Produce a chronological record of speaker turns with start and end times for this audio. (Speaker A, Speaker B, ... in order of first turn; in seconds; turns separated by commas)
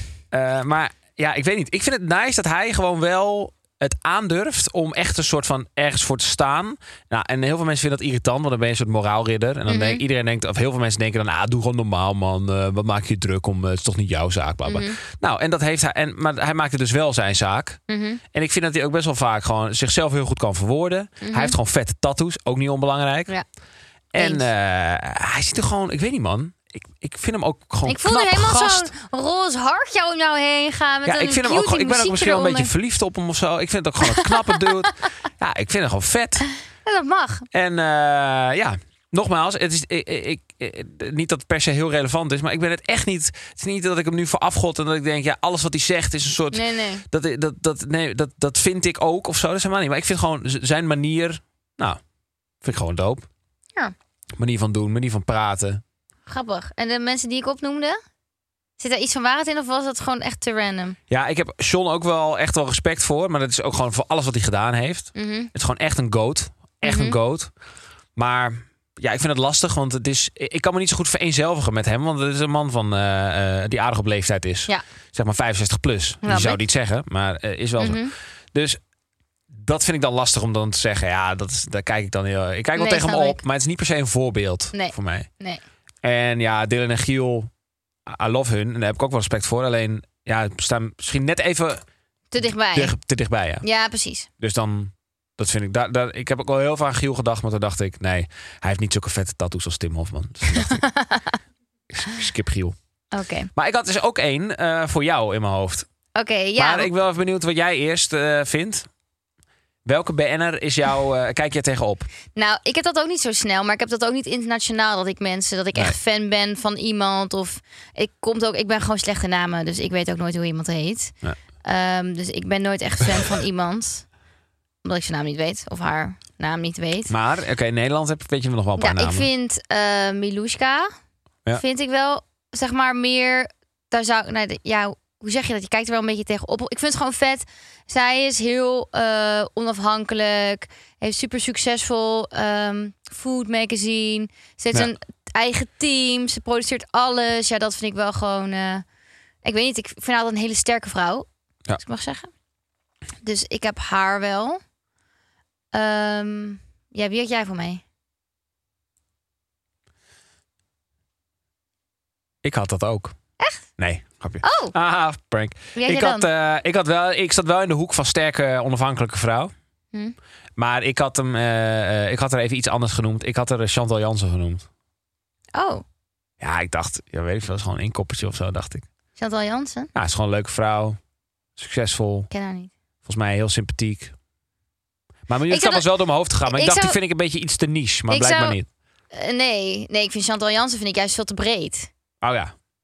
Speaker A: 0.3-17.8, Speaker B: 9.7-10.0, Speaker B: 14.7-15.0, Speaker B: 17.9-18.2, Speaker A: 18.3-23.3, Speaker B: 21.2-21.6, Speaker A: 24.1-28.9, Speaker B: 24.1-24.5, Speaker B: 27.9-32.7, Speaker A: 31.0-36.4, Speaker B: 34.0-34.6, Speaker B: 36.8-37.5, Speaker A: 37.5-52.0, Speaker B: 46.5-47.0, Speaker A: 52.6-53.3, Speaker A: 54.4-55.8, Speaker B: 56.3-58.0, Speaker B: 58.8-61.0, Speaker A: 61.1-67.5, Speaker B: 65.1-65.5, Speaker B: 66.8-67.2, Speaker A: 68.2-78.8, Speaker B: 76.2-76.6, Speaker B: 77.8-78.1, Speaker A: 79.5-85.3, Speaker B: 82.8-83.4, Speaker B: 84.7-85.6, Speaker A: 86.0-87.5, Speaker A: 88.0-91.8, Speaker B: 92.3-93.0, Speaker A: 92.4-93.6, Speaker B: 93.6-94.3, Speaker A: 94.4-100.8, Speaker B: 100.5-101.4, Speaker A: 101.9-102.8, Speaker B: 103.1-103.5, Speaker A: 103.5-105.9, Speaker B: 106.1-106.9, Speaker A: 106.6-108.9, Speaker A: 109.8-112.1, Speaker B: 112.3-124.1, Speaker B: 124.8-127.1, Speaker A: 127.1-129.3, Speaker B: 128.8-130.9, Speaker B: 131.5-148.8, Speaker B: 149.4-152.3, Speaker B: 153.2-154.6, Speaker B: 155.7-157.8, Speaker A: 162.4-163.1, Speaker B: 163.4-163.7, Speaker A: 163.8-169.5, Speaker B: 164.4-164.7, Speaker B: 165.7-166.3, Speaker A: 170.6-174.7, Speaker B: 175.5-175.8, Speaker A: 176.4-178.8, Speaker B: 179.2-179.9, Speaker A: 179.9-181.0, Speaker A: 181.6-182.3, Speaker B: 182.3-182.7, Speaker A: 183.0-184.1, Speaker A: 185.3-188.7, Speaker B: 185.5-185.9, Speaker B: 186.4-187.0, Speaker B: 188.1-188.6, Speaker B: 189.1-191.9, Speaker A: 192.2-192.5